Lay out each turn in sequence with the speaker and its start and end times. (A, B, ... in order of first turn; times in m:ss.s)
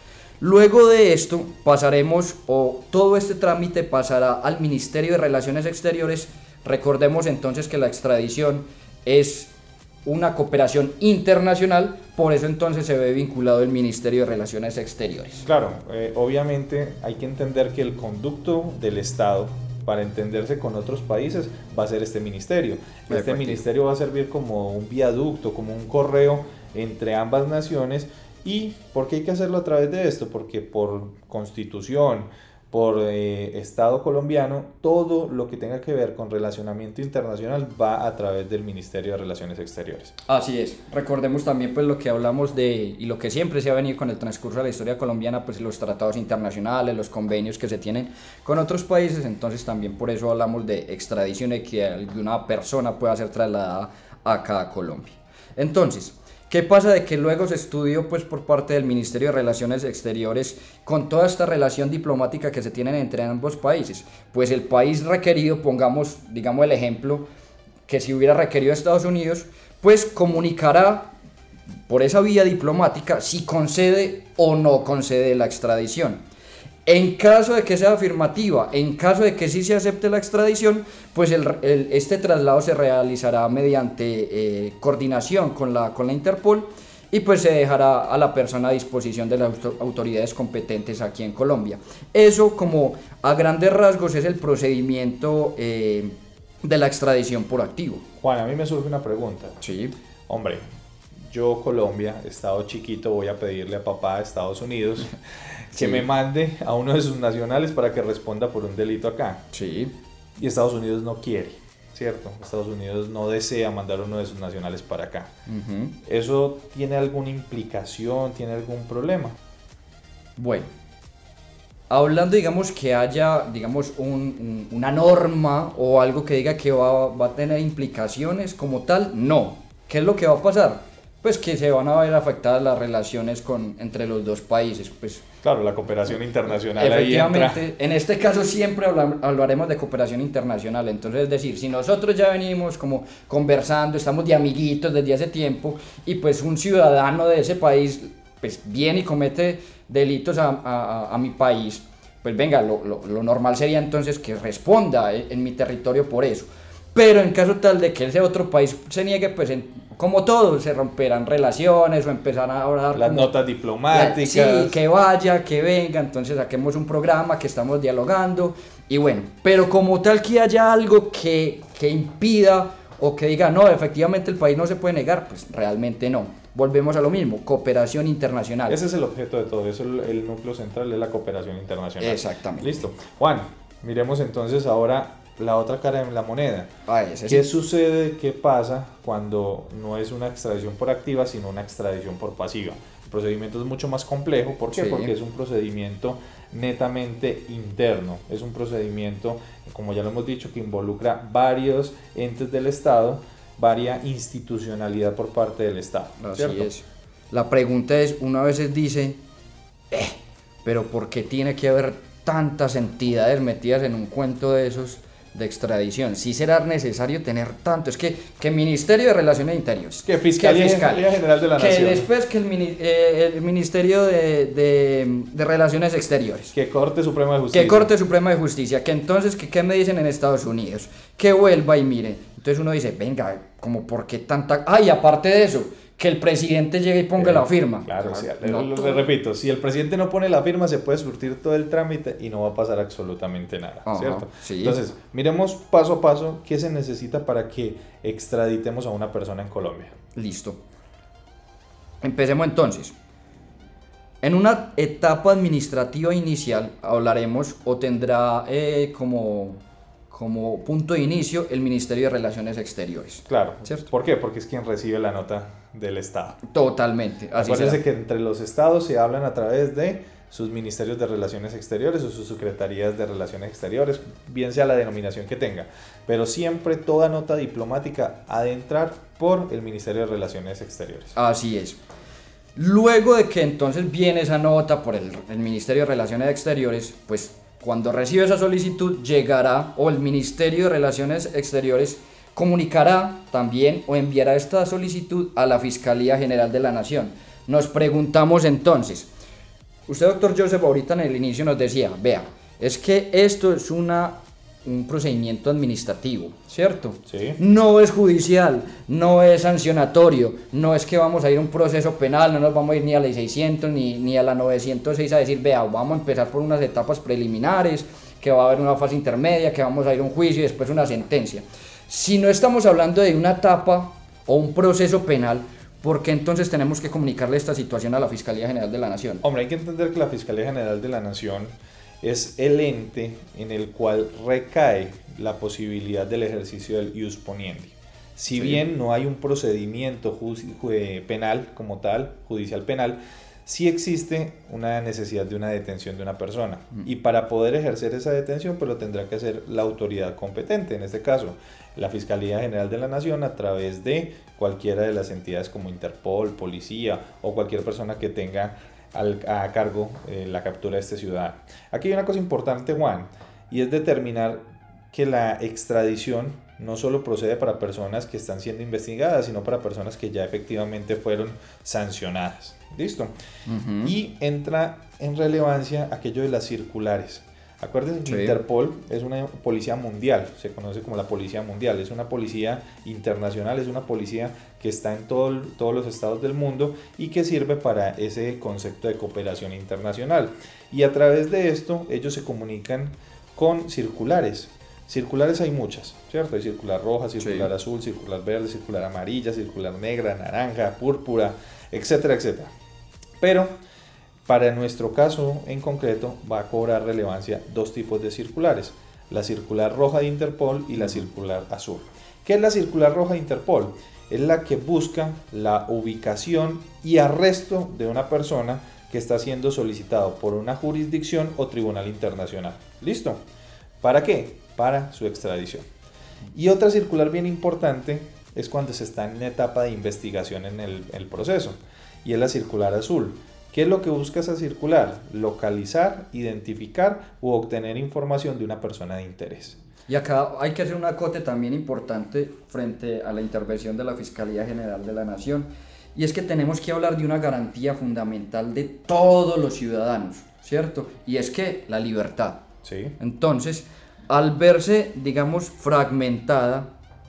0:00.4-0:09.5 A
0:10.0-0:15.4 A
0:15.5-0:40.1 B
0:23.1-0:23.6 A
0:40.3-1:07.2 A
1:07.9-1:11.1 A
1:11.9-1:16.2 A
1:16.8-1:38.0 A
1:38.2-1:39.6 B
1:39.6-1:39.9 A
1:40.3-1:40.6 B
1:41.3-1:45.1 B
1:45.7-1:49.4 B
1:45.7-1:46.0 A
1:49.5-1:49.9 A
1:50.4-1:55.3 B
1:55.5-1:55.9 A
1:56.0-1:59.4 B
2:00.4-2:00.7 A
2:01.9-2:15.2 A
2:15.4-2:17.6 B
2:16.7-2:43.3 A
2:42.9-2:44.8 B
2:43.9-2:58.8 A
2:58.7-3:06.7 B
3:02.0-3:02.8 A
3:06.9-3:07.5 A
3:07.3-3:26.7 B
3:14.7-3:15.1 A
3:26.2-3:29.2 A
3:29.9-3:46.5 A
3:40.0-3:42.1 B
3:46.5-3:47.9 B
3:47.5-3:59.0 A
3:57.2-4:09.9 B
4:03.9-4:04.8 A
4:10.2-4:10.6 A
4:12.0-4:12.9 A
4:14.2-4:23.8 A
4:23.3-4:26.4 B
4:26.5-4:27.8 A
4:27.4-4:41.1 B
4:41.2-4:41.8 A
4:42.6-4:59.1 A
4:59.9-5:29.2 A
5:07.1-5:07.4 B
5:29.2-6:13.1 B
5:38.3-5:38.6 A
6:13.5-6:13.9 A
6:13.8-6:42.5 B
6:18.1-6:18.4 A
6:37.2-6:37.5 A
6:43.2-6:43.5 B
6:44.3-7:03.2 B
7:03.8-7:05.7 B
7:06.3-7:19.6 B
7:19.9-7:32.4 A
7:32.6-7:32.9 B
7:33.0-7:36.7 A